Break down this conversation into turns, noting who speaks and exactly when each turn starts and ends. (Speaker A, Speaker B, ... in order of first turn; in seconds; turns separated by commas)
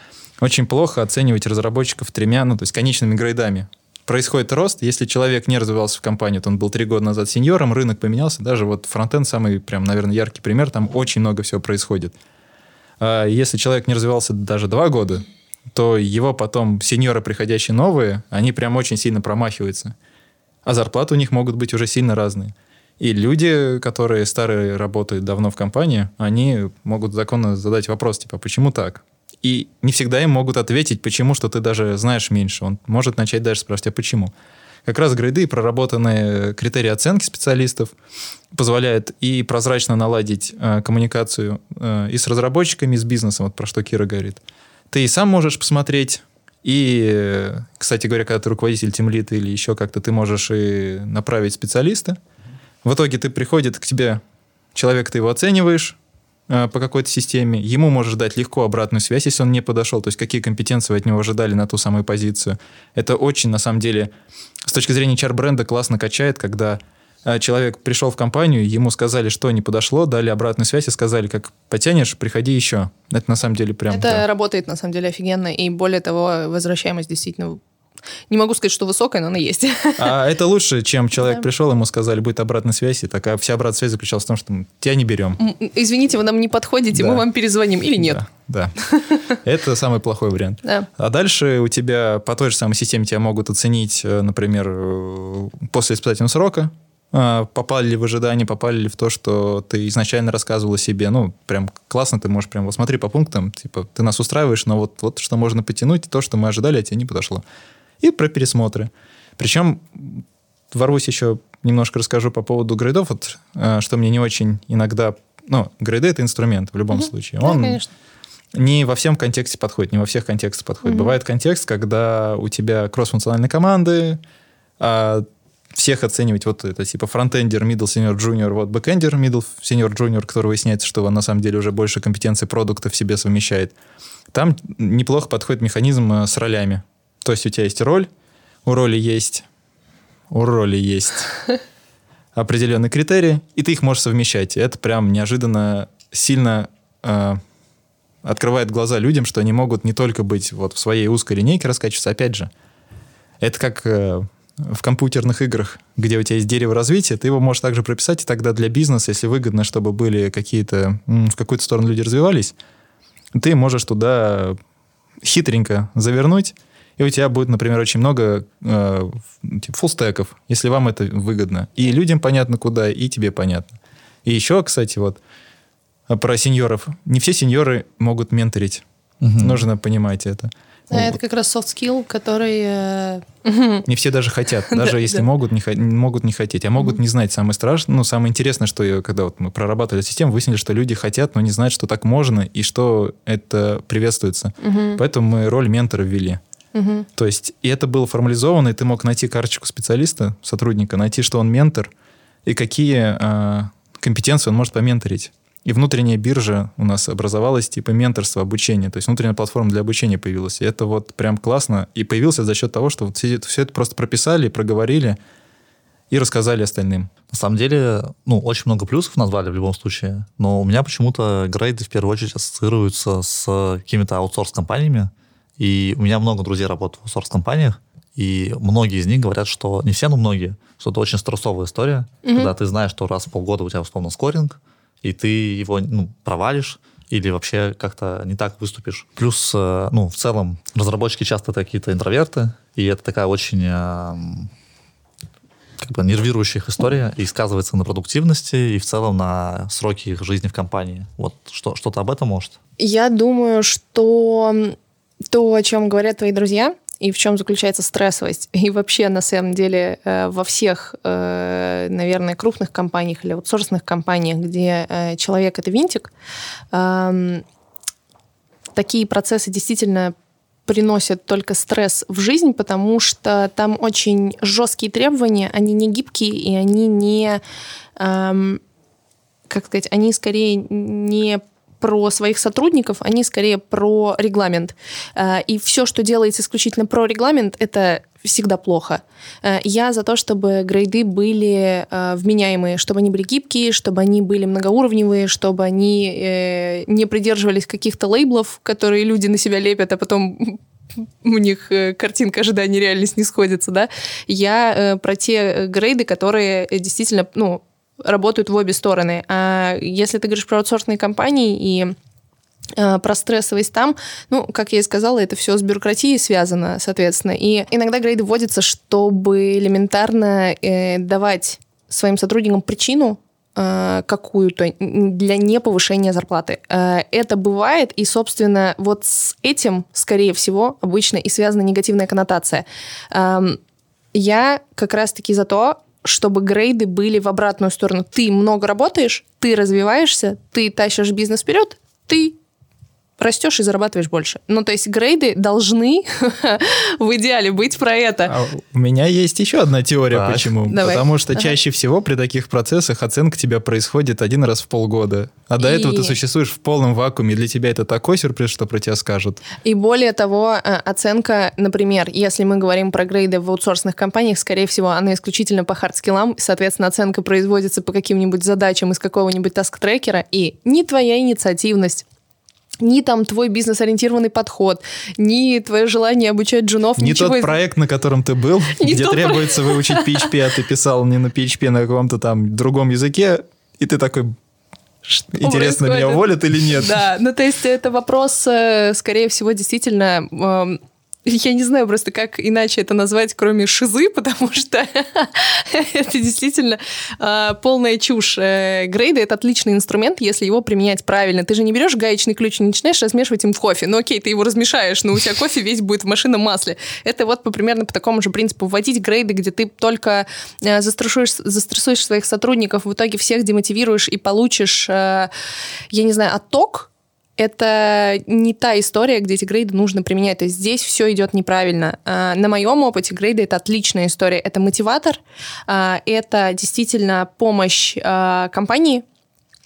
Speaker A: 0.4-12.1, Speaker A: 13.0-19.9, Speaker A: 20.6-34.3, Speaker A: 34.9-37.9, Speaker A: 38.5-52.2, Speaker A: 52.8-54.2, Speaker A: 54.7-56.0, Speaker A: 56.5-64.1, Speaker A: 64.7-74.2, Speaker B: 73.9-77.6, Speaker B: 78.3-80.1, Speaker A: 80.0-85.4, Speaker B: 81.2-81.4, Speaker B: 85.4-88.2, Speaker A: 86.9-87.2, Speaker A: 88.0-88.7, Speaker B: 88.9-89.2, Speaker A: 89.3-107.4, Speaker A: 108.0-117.8, Speaker B: 116.9-117.9, Speaker A: 118.5-124.2, Speaker B: 120.8-121.2, Speaker A: 124.8-133.7, Speaker A: 134.3-138.1, Speaker A: 138.7-139.4, Speaker A: 140.3-141.3, Speaker A: 142.3-147.4, Speaker A: 148.2-152.5, Speaker A: 153.4-162.5, Speaker A: 163.3-164.6, Speaker A: 165.2-173.7, Speaker A: 174.2-175.2, Speaker A: 176.1-178.8, Speaker C: 179.2-179.6, Speaker A: 179.4-181.2, Speaker B: 180.9-183.8, Speaker A: 183.8-196.4, Speaker B: 184.7-185.2, Speaker B: 194.6-195.0, Speaker B: 196.7-197.1, Speaker A: 197.2-201.9, Speaker A: 202.4-215.2, Speaker A: 216.1-217.1, Speaker C: 217.3-244.5, Speaker B: 232.2-232.5, Speaker C: 245.8-252.6, Speaker B: 252.8-254.8, Speaker B: 255.3-266.1, Speaker B: 266.7-267.4, Speaker B: 268.7-270.1, Speaker B: 270.7-277.4, Speaker B: 278.0-278.6, Speaker B: 279.5-300.6, Speaker B: 301.2-311.9, Speaker B: 312.8-333.6, Speaker B: 334.1-342.4, Speaker B: 343.2-348.3, Speaker A: 348.3-359.4, Speaker C: 350.1-350.5, Speaker B: 350.7-351.5, Speaker B: 355.6-356.2, Speaker B: 359.6-372.0, Speaker B: 372.8-377.6, Speaker A: 377.0-384.3, Speaker B: 378.8-380.3, Speaker B: 385.1-415.3, Speaker A: 385.3-387.0, Speaker B: 415.9-429.0